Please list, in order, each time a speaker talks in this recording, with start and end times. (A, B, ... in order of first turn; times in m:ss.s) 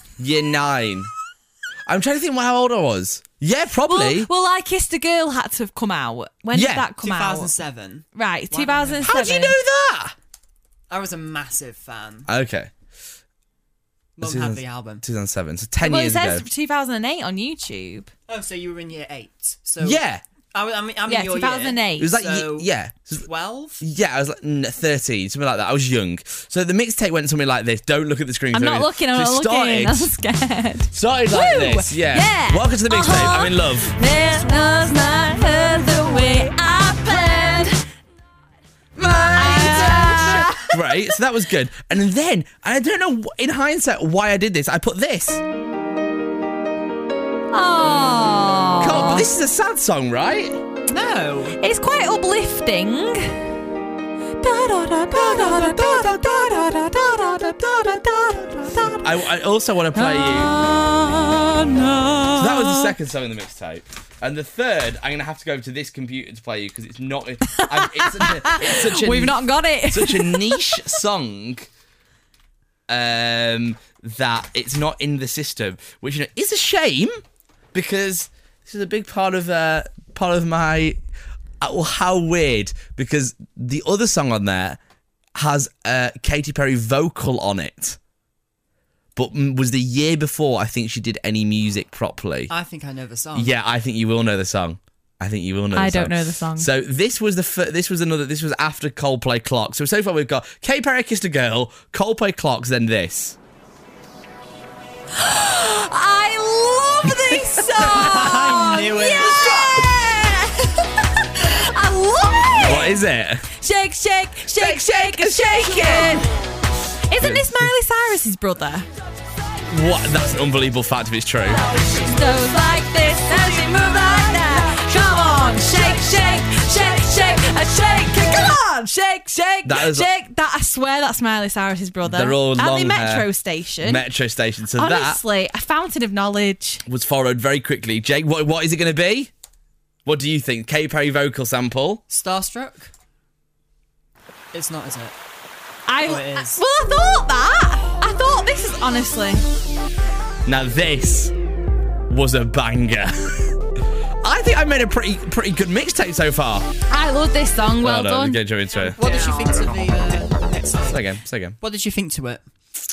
0:00.2-0:01.1 A
0:01.8-0:04.3 A
0:03.9-0:07.5 B
0:06.5-0:06.9 A
0:07.0-0:09.2 C
0:08.1-0:09.5 B
0:09.0-0:10.1 A
0:10.9-0:12.3 C
0:12.3-0:12.7 A
0:14.2-0:15.0 C
0:14.2-0:16.4 A
0:15.8-0:18.1 B
0:18.3-0:20.0 C
0:19.8-0:20.2 A
0:20.5-0:23.8 C
0:21.1-0:22.1 B
0:22.0-0:23.3 A
0:23.8-0:30.1 A
0:28.5-0:37.8 B
0:30.9-0:33.9 A
0:39.0-0:45.4 A
0:39.3-0:40.8 B
0:47.5-0:49.3 B
0:48.8-0:50.6 A
0:50.9-0:51.6 C
0:51.6-0:53.4 B
0:54.4-0:59.1 B
0:55.3-0:56.7 A
0:59.0-1:00.5 A
0:59.9-1:02.9 B
1:02.4-1:11.7 A
1:07.5-1:10.8 B
1:12.9-1:17.2 A
1:17.7-1:21.0 A
1:21.6-1:24.8 A
1:25.4-1:28.0 A
1:29.2-1:32.5 A
1:32.5-1:33.5 C
1:33.3-1:43.4 A
1:35.7-1:36.7 B
1:45.2-1:53.0 B
1:47.8-1:49.6 C
1:49.2-1:49.7 A
1:52.6-1:53.5 A
1:53.6-1:56.3 B
1:54.5-1:56.2 A
1:57.1-1:58.9 B
1:57.2-1:57.7 A
1:59.7-2:01.6 A
2:01.7-2:14.0 B
2:09.6-2:10.1 A
2:12.0-2:13.3 A
2:13.8-2:15.2 A
2:14.8-2:16.8 B
2:16.9-2:19.3 A
2:20.0-2:22.0 A
2:22.1-2:22.9 C
2:24.5-2:25.1 C
2:25.9-2:29.4 B
2:26.0-2:26.6 C
2:30.4-2:31.3 A
2:32.1-2:33.5 A
2:34.2-2:36.7 A
2:36.9-2:38.4 B
2:37.8-2:39.0 A
2:38.7-2:42.4 C
2:40.8-2:41.6 A